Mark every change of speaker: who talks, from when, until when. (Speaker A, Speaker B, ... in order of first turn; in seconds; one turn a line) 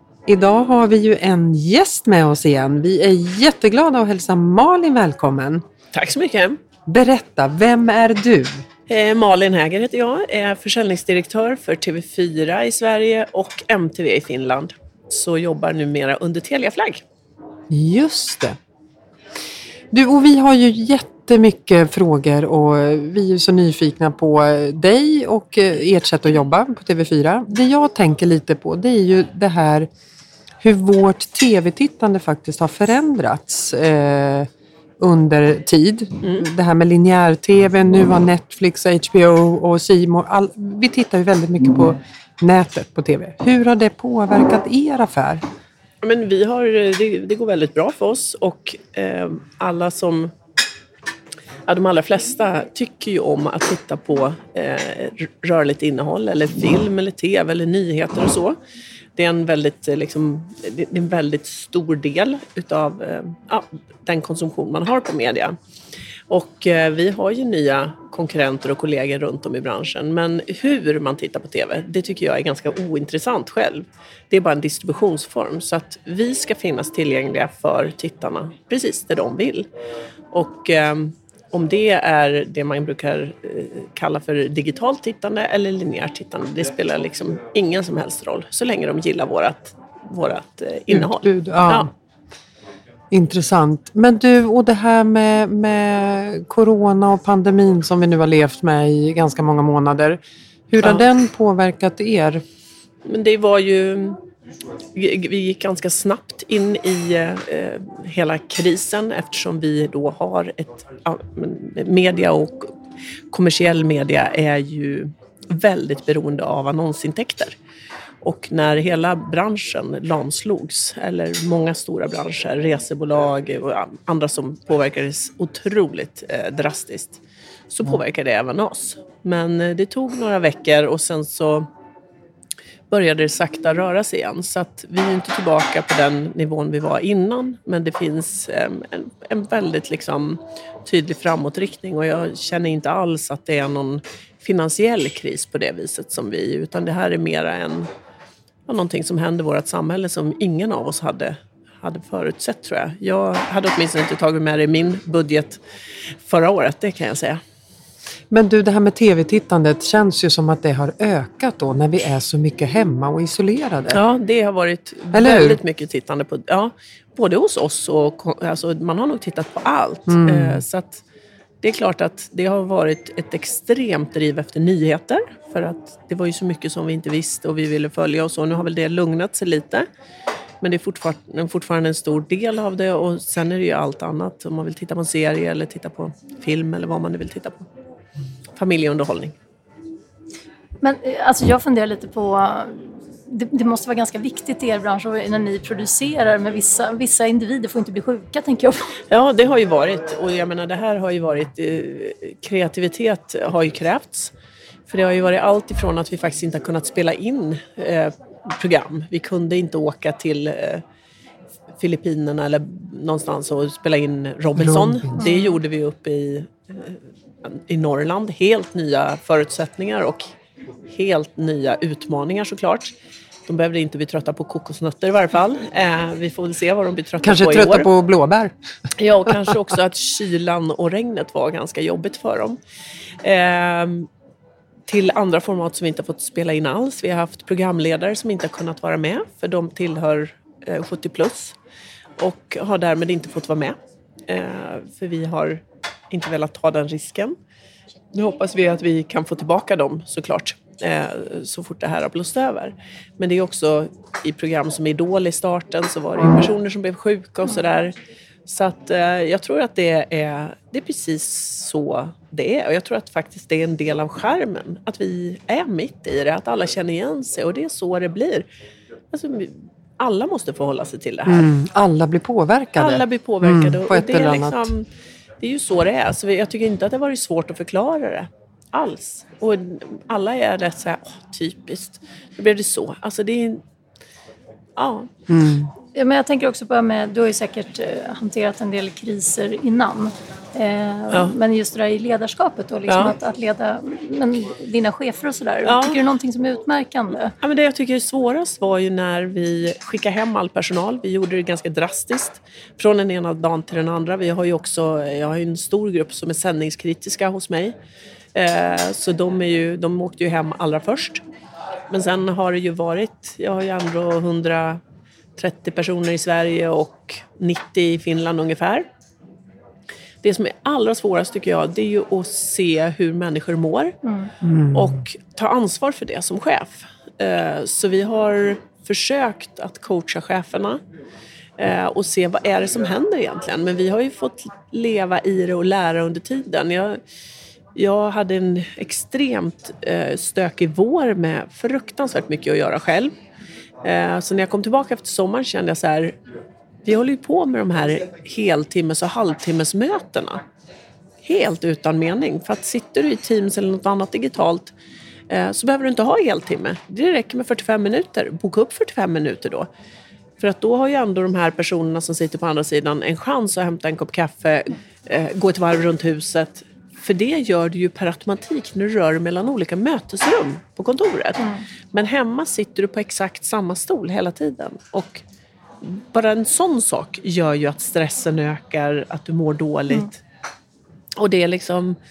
Speaker A: 0.3-5.6
Speaker B: 5.9-6.6
Speaker A: 6.8-8.6
Speaker B: 8.9-17.0
Speaker A: 17.7-18.6
Speaker A: 19.9-29.9
Speaker A: 30.6-34.5
Speaker A: 35.0-45.4
Speaker B: 46.0-50.3
Speaker B: 51.7-58.5
Speaker B: 59.1-65.5
Speaker B: 66.3-79.7
Speaker B: 80.3-91.9
Speaker A: 90.9-91.9
Speaker A: 93.1-102.4
Speaker B: 103.0-104.2
Speaker B: 104.9-112.7
Speaker B: 113.3-117.5
Speaker B: 118.2-131.7
Speaker B: 132.9-147.9
Speaker B: 148.7-155.6
Speaker B: 156.1-157.4
Speaker A: 158.3-164.0
Speaker B: 163.9-171.0
Speaker A: 165.1-165.6
Speaker A: 170.1-170.6
Speaker B: 171.6-179.8
Speaker B: 180.6-187.7
Speaker B: 188.6-189.3
Speaker C: 190.8-198.9
Speaker B: 199.1-204.3
Speaker B: 204.9-210.8
Speaker B: 211.8-220.3
Speaker A: 214.6-215.2
Speaker C: 215.2-215.6
Speaker B: 220.9-222.9
Speaker B: 223.5-227.9
Speaker A: 227.2-228.5
Speaker B: 229.0-232.6
Speaker A: 229.3-229.6
Speaker B: 233.2-234.1
Speaker B: 234.9-241.6
Speaker B: 242.2-243.8
Speaker B: 244.3-247.3
Speaker B: 248.1-257.9
Speaker B: 258.5-268.4
Speaker B: 269.1-271.5
Speaker A: 271.3-274.7
Speaker B: 272.8-274.9
Speaker B: 275.4-283.6
Speaker B: 284.8-285.1
Speaker A: 285.3-285.7
Speaker C: 285.9-297.3
Speaker B: 292.9-293.1
Speaker B: 295.6-296.0
Speaker B: 297.4-307.7
Speaker B: 308.3-311.2
Speaker B: 311.9-314.8
Speaker B: 315.4-318.9
Speaker B: 320.2-323.9
Speaker C: 324.0-324.3
Speaker A: 324.4-325.0
Speaker B: 324.7-330.8
Speaker B: 331.6-337.0
Speaker B: 337.7-343.1
Speaker B: 343.8-346.1
Speaker B: 346.8-350.4
Speaker B: 351.2-354.7
Speaker B: 355.3-359.7
Speaker B: 360.4-375.2
Speaker B: 375.8-380.2
Speaker B: 381.2-382.0